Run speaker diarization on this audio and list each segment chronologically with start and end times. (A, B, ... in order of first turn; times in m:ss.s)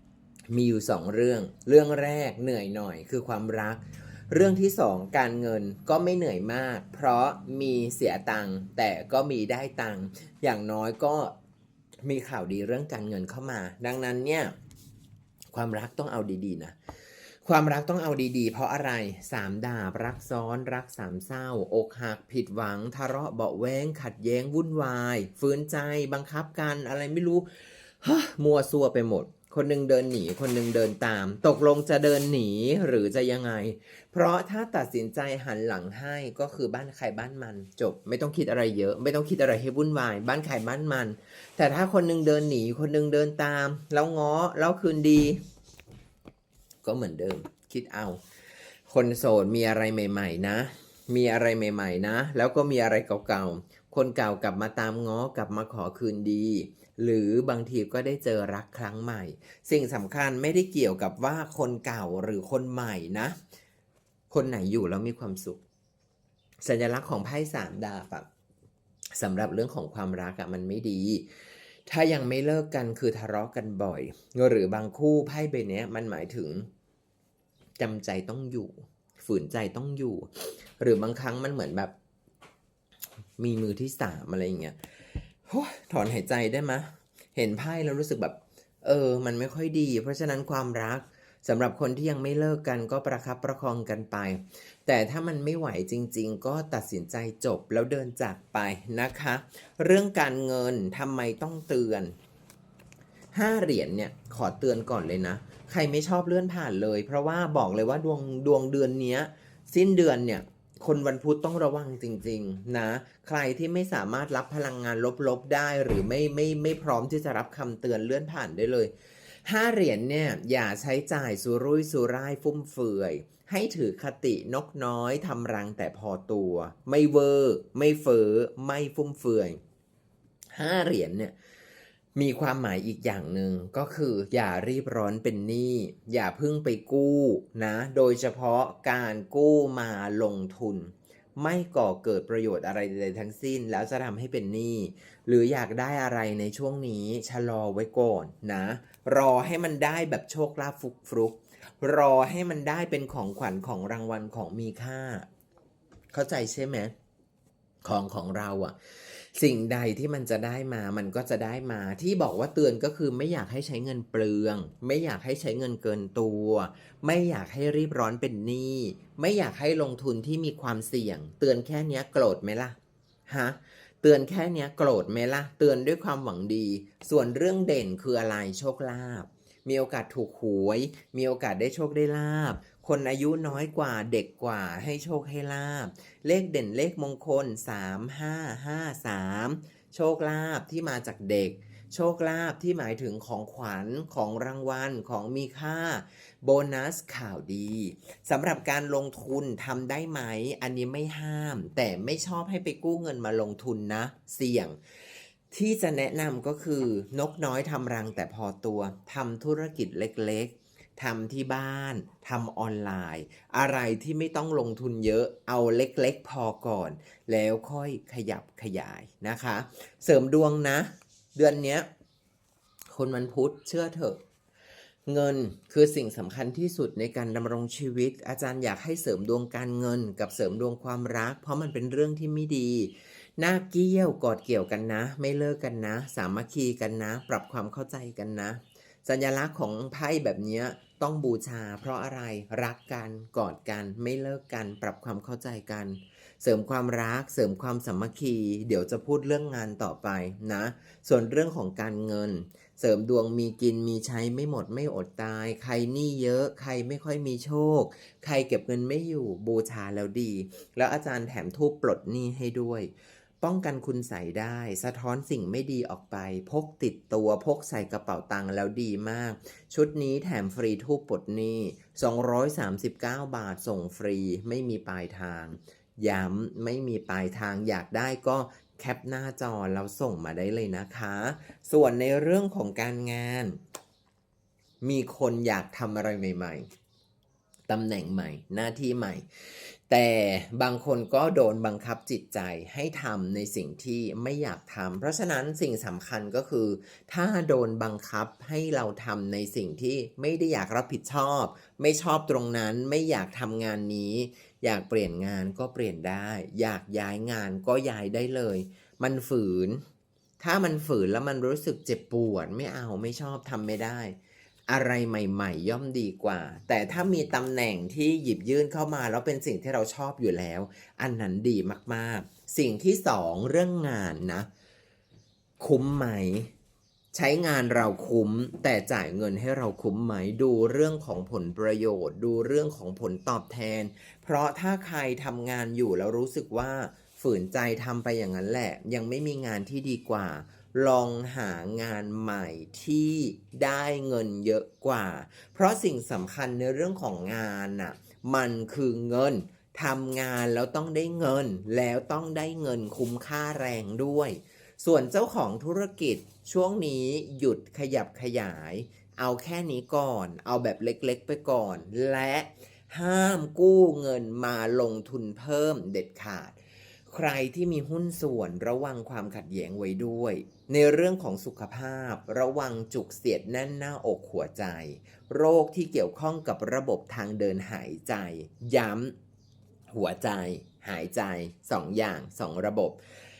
0:00.5-0:11.3 A
0:12.0-0:14.5 A
0:15.5-0:16.8 A
0:17.4-0:45.4 A
0:46.8-0:48.2 A
0:48.9-1:03.4 A
1:04.3-1:05.6 A
1:06.6-1:08.3 A
1:09.1-1:11.3 A
1:11.9-1:16.7 A
1:17.8-1:21.9 A
1:23.4-1:24.8 A
1:25.5-1:42.2 A
1:43.3-1:58.9 A
1:59.4-2:09.6 A
2:10.5-2:11.3 A
2:12.1-2:35.3 A
2:36.1-2:36.9 A
2:37.8-3:24.8 A
3:25.5-3:41.9 A
3:42.9-3:44.2 A
3:45.1-4:43.6 A
4:44.8-4:46.7 A
4:47.7-5:09.8 A
5:10.4-5:14.2 A
5:14.7-5:24.5 A
5:25.6-5:26.5 A
5:27.1-6:06.6 A
6:07.1-6:19.1 A
6:19.9-6:23.0 A